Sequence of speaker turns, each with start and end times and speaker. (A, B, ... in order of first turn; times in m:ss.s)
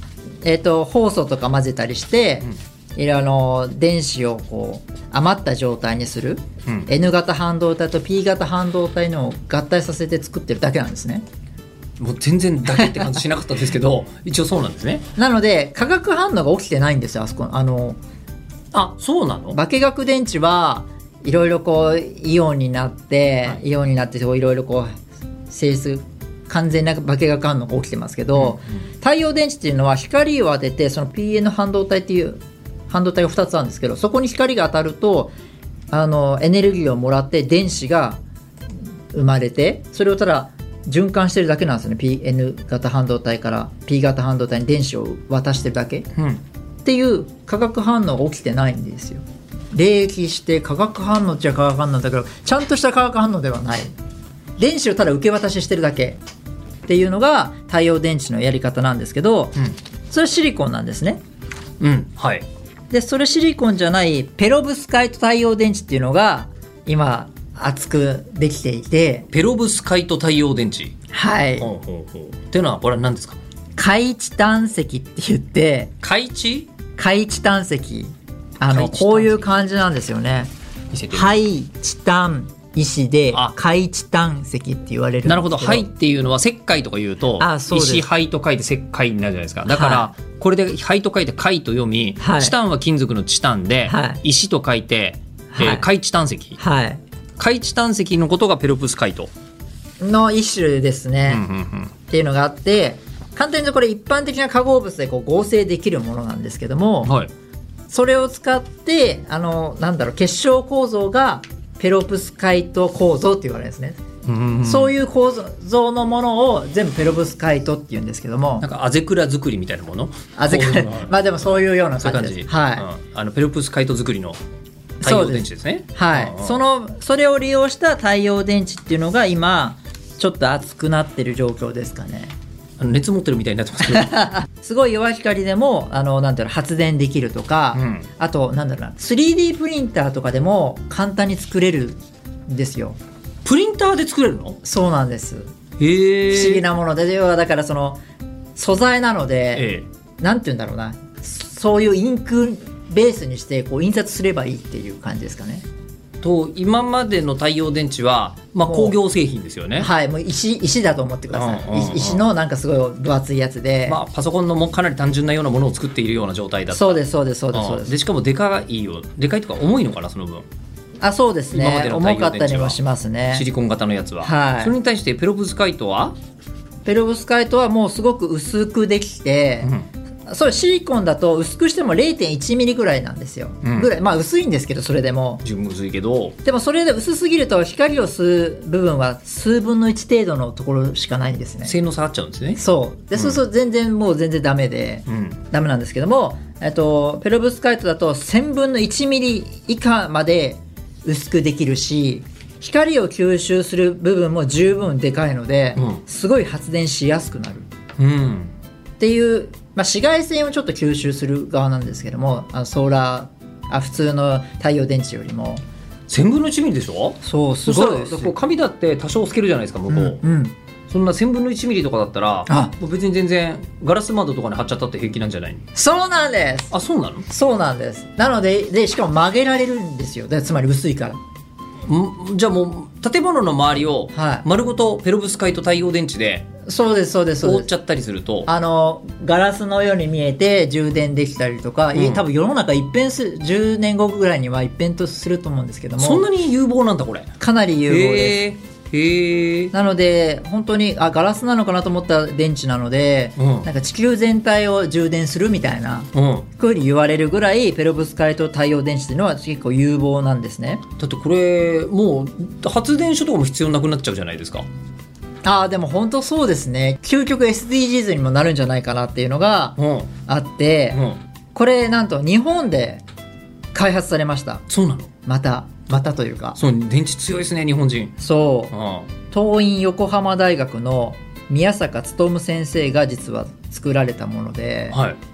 0:00.4-0:11.2 A
0:12.0-0:15.0 B
0:12.8-0:13.0 A
0:15.2-0:18.0 A
0:18.7-0:19.6 B
0:19.5-0:25.0 A
0:25.5-0:35.3 A
0:28.4-0:28.8 B
0:35.9-0:38.2 A
0:39.1-0:46.1 A
0:46.2-0:46.4 B
0:46.8-0:53.9 A
0:54.6-0:56.2 A
0:56.8-0:59.6 A
1:00.1-1:01.2 A
1:01.8-1:02.4 B
1:02.9-1:09.3 A
1:09.3-1:10.9 B
1:11.1-1:11.7 A
1:11.6-1:13.4 B
1:13.8-1:15.9 A
1:16.0-1:16.7 B
1:17.0-1:20.5 A
1:18.6-1:19.5 B
1:20.9-1:21.4 B
1:21.1-1:25.8 A
1:25.2-1:36.6 B
1:27.4-1:28.1 A
1:29.6-1:30.1 A
1:32.2-1:32.5 A
1:33.9-1:34.2 A
1:35.5-1:35.8 A
1:36.6-1:37.0 A
1:37.4-1:39.3 B
1:40.0-1:41.4 A
1:41.3-1:41.9 B
1:42.1-1:47.1 A
1:47.0-1:47.3 B
1:47.9-1:54.0 A
1:54.2-1:54.9 B
1:54.6-1:58.6 A
1:58.6-2:01.2 B
2:00.4-2:02.9 A
2:02.0-2:04.4 B
2:05.0-2:06.6 B
2:05.0-2:12.3 A
2:12.8-2:14.2 B
2:13.9-2:23.0 A
2:17.7-2:18.0 B
2:23.4-2:24.6 B
2:24.6-2:25.5 A
2:25.8-2:26.6 B
2:26.3-2:28.0 A
2:28.6-2:29.7 A
2:29.5-2:29.8 B
2:30.2-2:35.6 A
2:36.2-2:39.9 B
2:38.6-2:38.9 A
2:39.8-2:44.0 A
2:41.3-2:42.2 B
2:43.9-2:47.0 B
2:46.7-2:47.9 A
2:47.5-2:50.4 B
2:51.0-2:53.4 A
2:51.5-2:52.8 B
2:53.3-2:56.2 B
2:54.2-2:54.7 A
2:56.8-2:59.7 A
2:59.6-2:59.9 B
3:00.3-3:05.4 A
3:03.6-3:03.9 B
3:05.4-3:06.4 B
3:06.4-3:11.7 A
3:11.6-3:12.6 B
3:12.6-3:27.7 A
3:15.1-3:15.4 B
3:25.8-3:26.0 B
3:28.0-3:28.5 B
3:29.0-3:35.6 A
3:36.1-3:40.2 B
3:37.2-3:38.3 A
3:39.9-3:40.5 A
3:40.9-3:45.6 B
3:42.5-3:42.7 A
3:45.8-3:46.7 A
3:46.7-3:47.3 B
3:47.3-3:51.2 A
3:51.8-3:56.5 B
3:54.1-3:54.4 A
3:56.6-3:57.7 A
3:57.4-3:58.5 B
3:58.4-4:06.2 A
4:01.9-4:02.2 B
4:06.0-4:07.3 B
4:07.4-4:08.4 A
4:07.9-4:09.7 B
4:09.7-4:20.8 A
4:13.4-4:13.7 B
4:16.1-4:16.5 B
4:21.0-4:24.6 B
4:25.4-4:31.0 A
4:29.8-4:30.1 B
4:30.9-4:31.2 B
4:31.5-4:33.0 A
4:33.7-4:34.6 A
4:34.7-4:35.1 B
4:35.2-4:36.6 A
4:36.6-4:38.2 B
4:38.2-4:38.7 A
4:38.7-4:39.1 B
4:39.3-4:45.0 A
4:44.9-4:45.2 B